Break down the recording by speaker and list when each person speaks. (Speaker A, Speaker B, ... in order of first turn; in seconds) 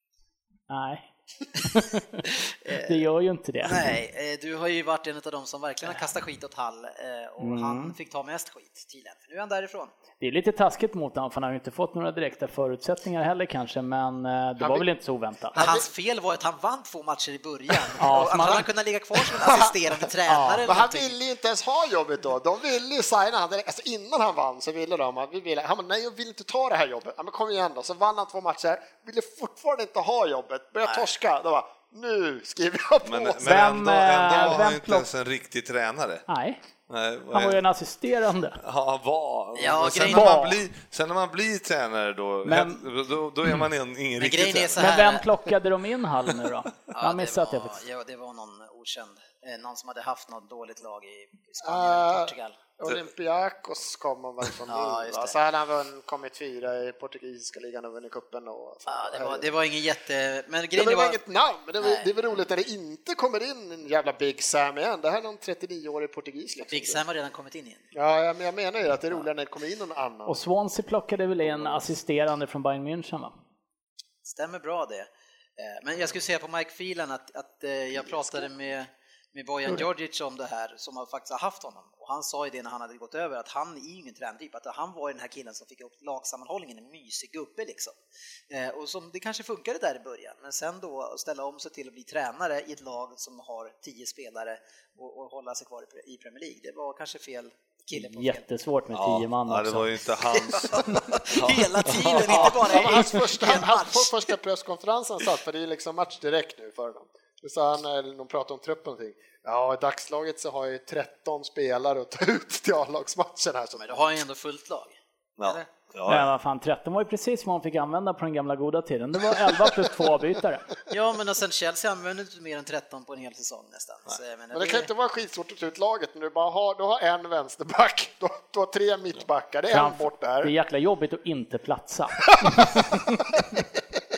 Speaker A: 0.7-3.9, 7.4-8.0, 10.2-15.6, 18.0-18.7, 33.4-35.1, 36.3-36.6, 37.3-38.6, 40.0-40.6, 42.5-42.9, 44.8-47.8, 70.3-73.3, 98.0-99.9, 116.1-120.7, 129.7-133.3
Speaker B: 2.3-3.0, 3.6-9.9, 15.6-21.2, 30.8-31.1, 39.6-40.4, 44.2-45.3, 46.9-52.6, 54.7-55.4, 58.9-61.2, 61.8-62.1, 66.7-67.8, 74.2-88.0, 88.5-98.4, 100.2-104.3, 113.8-115.7, 120.9-124.9
Speaker C: 14.6-14.9, 15.5-15.9, 19.2-19.8, 20.3-33.7, 51.6-59.5, 60.8-67.0, 67.9-70.4, 102.4-114.1, 124.5-130.5
Speaker D: 33.0-36.3, 36.9-37.6, 38.6-44.9, 98.9-102.6, 115.4-116.3